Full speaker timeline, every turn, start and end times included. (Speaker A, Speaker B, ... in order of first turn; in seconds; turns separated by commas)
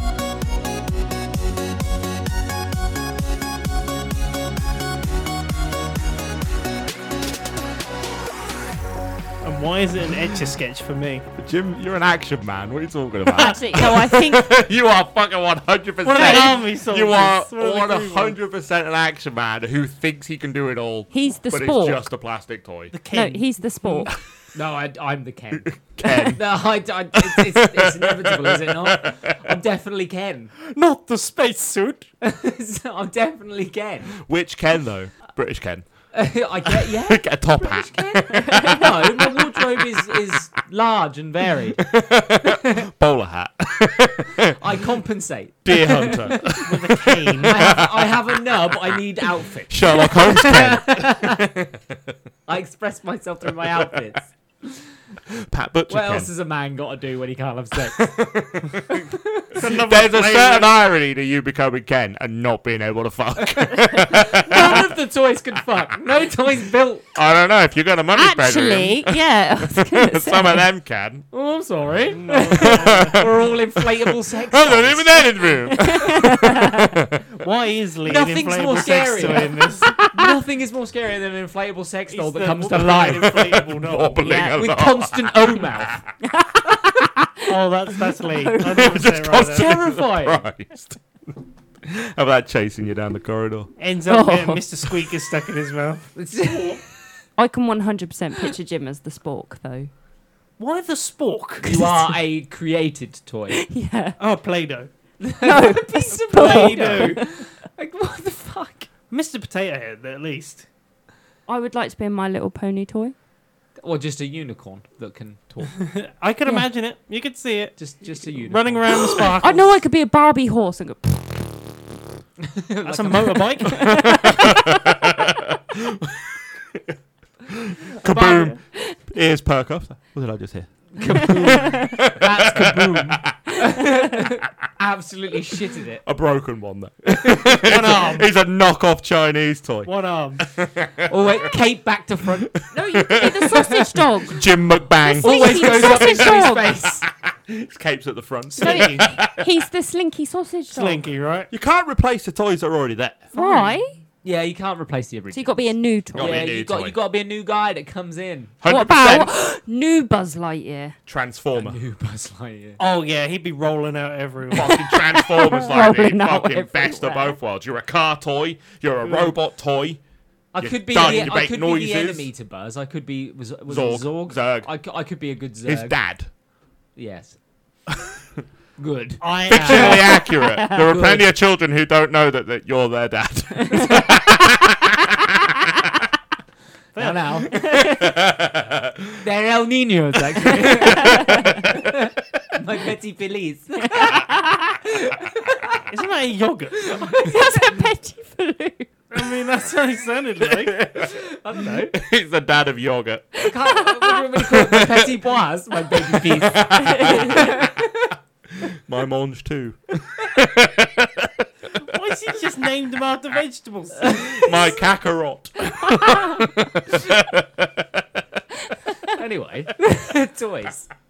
Speaker A: 9.4-11.3, Speaker B: 11.4-22.9, Speaker C: 13.3-14.5, Speaker A: 16.0-18.4, Speaker C: 16.1-16.6, Speaker C: 21.1-22.0, Speaker A: 22.9-23.4, Speaker C: 23.1-24.1, Speaker D: 24.5-30.5, Speaker B: 25.5-26.4, Speaker C: 26.0-26.3, Speaker B: 27.1-29.4, Speaker A: 30.6-32.1, Speaker D: 32.2-34.1, Speaker B: 34.2-35.9, Speaker D: 36.1-41.8, Speaker B: 36.6-39.5, Speaker B: 41.8-44.6, Speaker D: 44.6-46.5, Speaker B: 45.6-48.7, Speaker A: 46.5-47.8, Speaker D: 47.4-51.4, Speaker B: 49.7-52.1, Speaker D: 52.5-54.3, Speaker B: 55.4-56.3, Speaker D: 55.9-58.3, Speaker B: 58.0-64.9, Speaker D: 58.9-59.4, Speaker A: 59.5-60.7, Speaker D: 63.4-67.0, Speaker B: 67.1-69.2, Speaker C: 68.1-70.7, Speaker B: 69.8-71.2, Speaker D: 71.3-75.3, Speaker A: 72.1-73.2, Speaker B: 72.5-77.2, Speaker C: 75.7-76.8, Speaker A: 77.4-80.0, Speaker D: 78.0-83.4, Speaker C: 80.0-80.3, Speaker A: 82.1-84.5, Speaker B: 83.2-86.0, Speaker C: 84.2-84.6, Speaker D: 84.5-86.0, Speaker C: 86.3-87.6, Speaker A: 87.5-89.7, Speaker C: 88.1-88.8, Speaker B: 88.6-91.0, Speaker D: 89.3-90.4, Speaker B: 91.8-93.7, Speaker A: 93.8-96.7, Speaker C: 94.1-94.6, Speaker D: 96.2-96.8, Speaker C: 97.4-99.9, Speaker A: 100.6-102.1, Speaker D: 101.6-103.7, Speaker C: 103.5-104.2, Speaker A: 104.2-104.9, Speaker D: 105.2-108.9, Speaker C: 105.4-107.4, Speaker A: 106.2-107.2, Speaker A: 109.1-110.7, Speaker C: 111.5-113.1, Speaker D: 113.8-115.8, Speaker A: 115.8-119.7, Speaker D: 117.8-119.3, Speaker C: 119.4-121.6, Speaker D: 122.5-123.6, Speaker A: 122.8-124.1, Speaker C: 123.6-125.0, Speaker B: 123.9-126.9, Speaker B: 127.5-133.4, Speaker A: 128.0-128.6, Speaker D: 130.9-136.0, Speaker B: 136.0-141.3, Speaker A: 137.6-138.3, Speaker A: 139.8-140.4, Speaker D: 141.1-144.0, Speaker C: 142.7-144.4, Speaker B: 142.8-146.4, Speaker C: 145.0-146.9, Speaker D: 145.2-147.0, Speaker B: 147.3-149.6, Speaker C: 148.6-151.0, Speaker A: 148.6-149.0, Speaker A: 150.7-151.5, Speaker B: 151.5-153.3, Speaker C: 153.3-154.0, Speaker D: 154.2-158.5, Speaker C: 155.3-156.6, Speaker B: 156.1-156.9, Speaker B: 158.6-159.3, Speaker C: 158.6-161.0, Speaker B: 161.1-161.8, Speaker D: 161.5-162.8, Speaker A: 162.8-164.9, Speaker B: 164.5-170.0, Speaker C: 164.6-167.4, Speaker D: 170.5-175.9, Speaker B: 170.6-172.3, Speaker B: 173.7-174.7, Speaker B: 175.6-176.3, Speaker D: 176.9-177.3, Speaker D: 178.8-181.3, Speaker A: 179.2-180.2, Speaker B: 179.5-185.6, Speaker C: 180.3-180.8, Speaker C: 183.7-184.0, Speaker A: 186.9-187.4, Speaker D: 186.9-187.6, Speaker B: 187.4-189.2, Speaker C: 187.6-188.1, Speaker D: 189.2-194.3, Speaker B: 190.3-191.6, Speaker C: 190.8-191.7, Speaker C: 193.9-194.4, Speaker D: 194.8-195.8, Speaker A: 195.9-196.9, Speaker D: 196.8-197.7, Speaker C: 197.1-198.9, Speaker A: 199.1-200.8, Speaker B: 200.5-201.1, Speaker D: 200.9-201.9, Speaker B: 201.9-203.5, Speaker D: 203.4-208.1, Speaker B: 204.4-205.2, Speaker B: 206.3-207.6, Speaker C: 206.7-207.5, Speaker B: 208.6-211.4, Speaker A: 211.8-214.7, Speaker B: 214.4-218.1, Speaker D: 219.1-220.9